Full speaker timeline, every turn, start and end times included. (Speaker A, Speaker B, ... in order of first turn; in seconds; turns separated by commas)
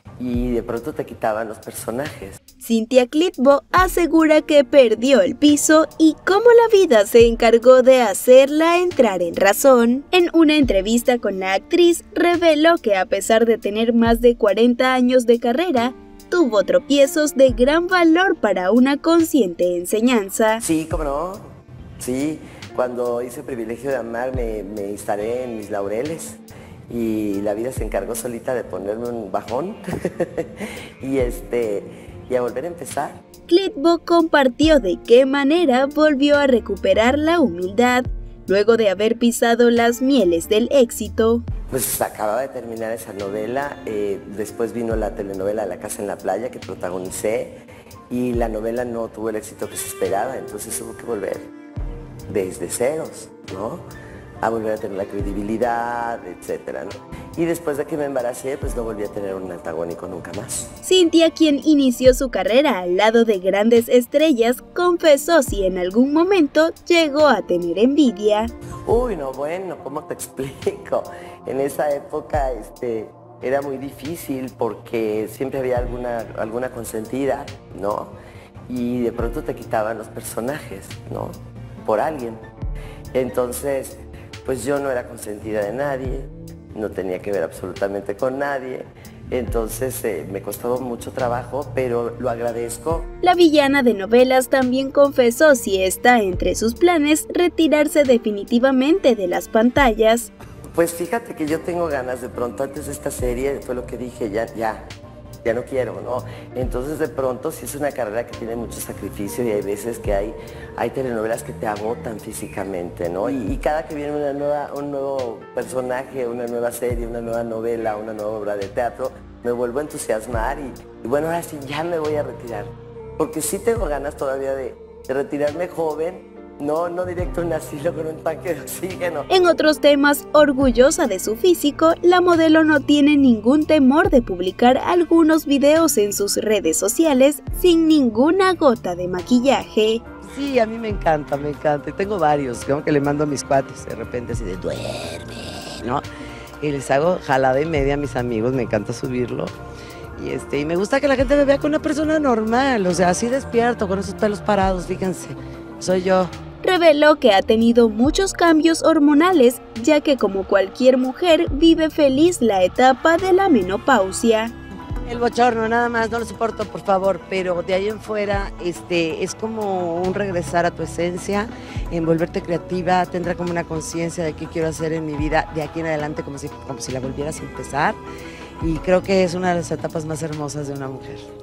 Speaker A: 0.2-2.4, Speaker B: 2.6-20.6, Speaker A: 20.6-33.2, Speaker B: 33.5-41.4, Speaker A: 41.7-51.5, Speaker A: 52.3-53.8, Speaker A: 54.4-60.7, Speaker B: 60.8-68.5, Speaker A: 68.8-78.1, Speaker A: 78.7-82.4, Speaker A: 83.1-93.1, Speaker B: 93.2-100.3, Speaker A: 100.7-104.9, Speaker A: 105.4-129.3, Speaker B: 129.3-140.0, Speaker C: 140.2-146.0, Speaker C: 146.6-149.5, Speaker C: 150.2-156.3, Speaker B: 156.6-164.5, Speaker C: 165.0-178.0, Speaker C: 178.6-181.2